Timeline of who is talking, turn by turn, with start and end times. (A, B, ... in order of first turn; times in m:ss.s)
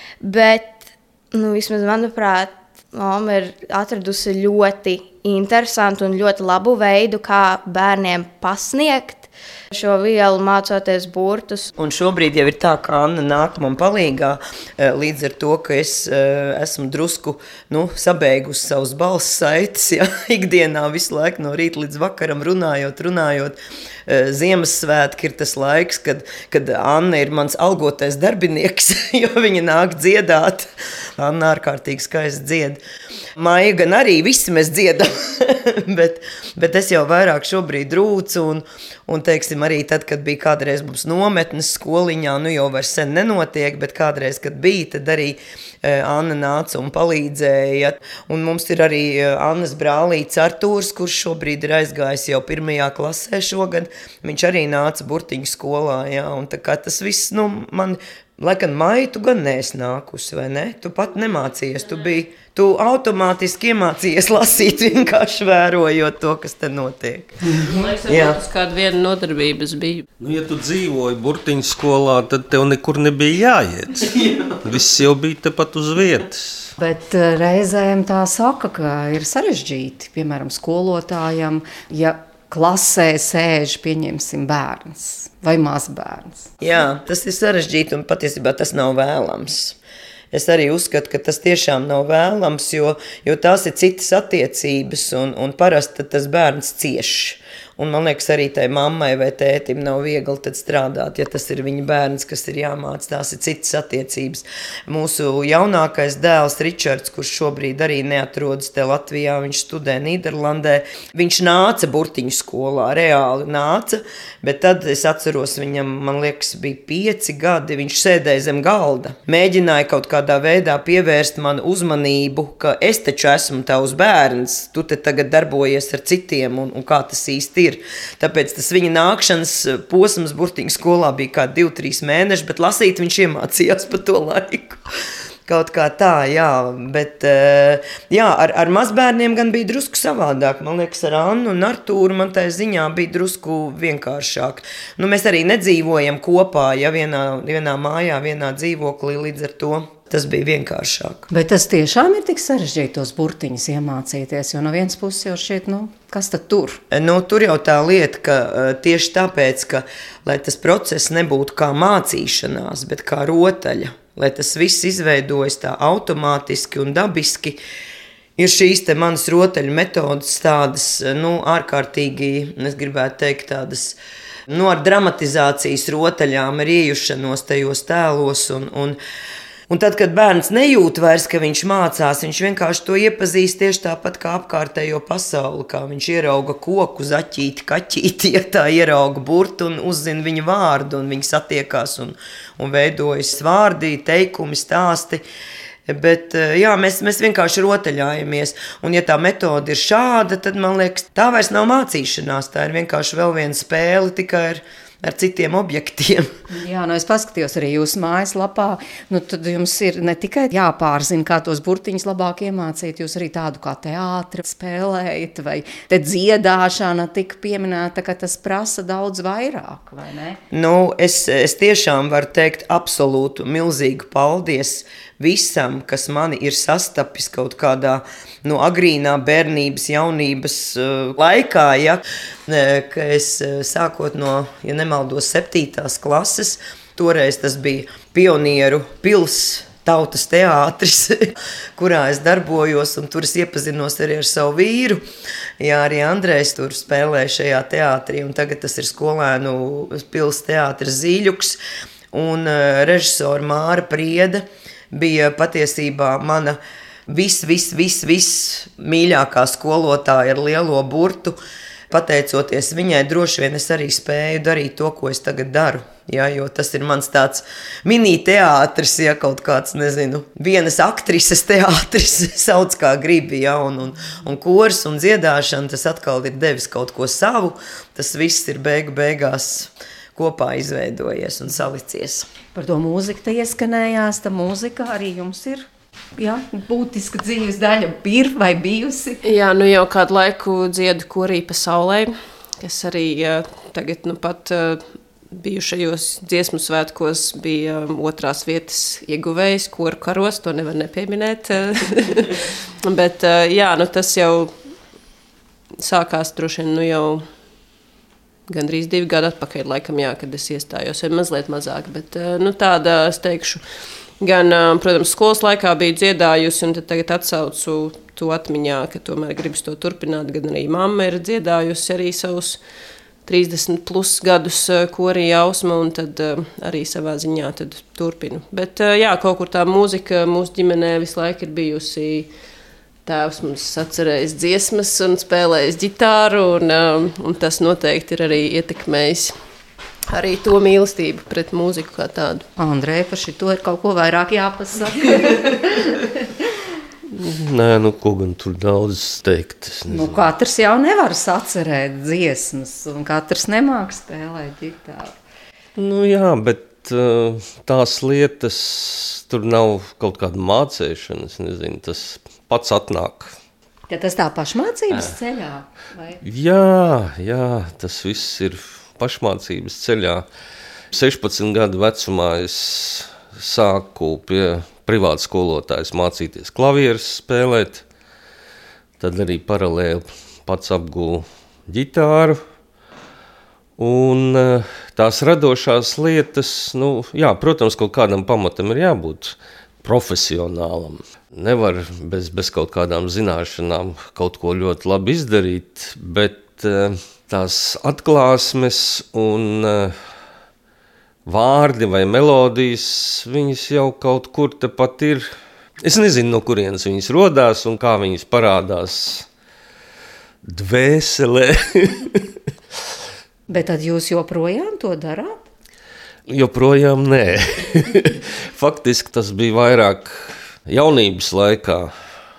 0:00.2-0:00.8 A
0:01.3-0:11.7 A
0:11.8-0:32.8 B
0:33.4-1:07.4 B
1:07.6-1:10.1 C
1:08.1-1:08.4 B
1:10.2-1:16.7 D
1:16.8-1:26.5 E
1:26.6-1:29.8 B
1:30.3-2:14.8 B
2:15.5-2:31.3 B
2:31.3-2:36.8 E
2:36.9-2:47.6 B
2:48.4-2:59.0 B
2:59.7-3:15.2 B
3:15.9-3:26.3 B
3:26.5-3:40.4 E
3:40.5-4:05.0 B
4:05.6-4:11.6 B
4:12.1-4:21.4 B
4:21.9-4:42.3 B
4:42.6-4:49.2 E
4:49.2-5:04.6 C
5:05.8-5:07.3 C
5:08.5-5:13.6 C
5:14.2-5:22.6 C
5:23.3-5:32.3 C
5:33.1-5:39.4 C
5:40.1-5:42.5 C
5:42.6-5:45.9 E
5:47.1-5:50.3 D
5:49.9-5:55.1 E
5:55.8-6:03.4 D
6:03.9-6:06.2 E
6:06.2-6:10.3 D
6:10.9-6:17.8 D
6:19.0-6:22.4 D
6:23.8-6:40.0 D
6:41.3-6:45.3 D
6:45.8-6:49.3 D
6:50.4-6:52.3 D
6:53.5-6:55.4 E
6:56.3-7:01.9 D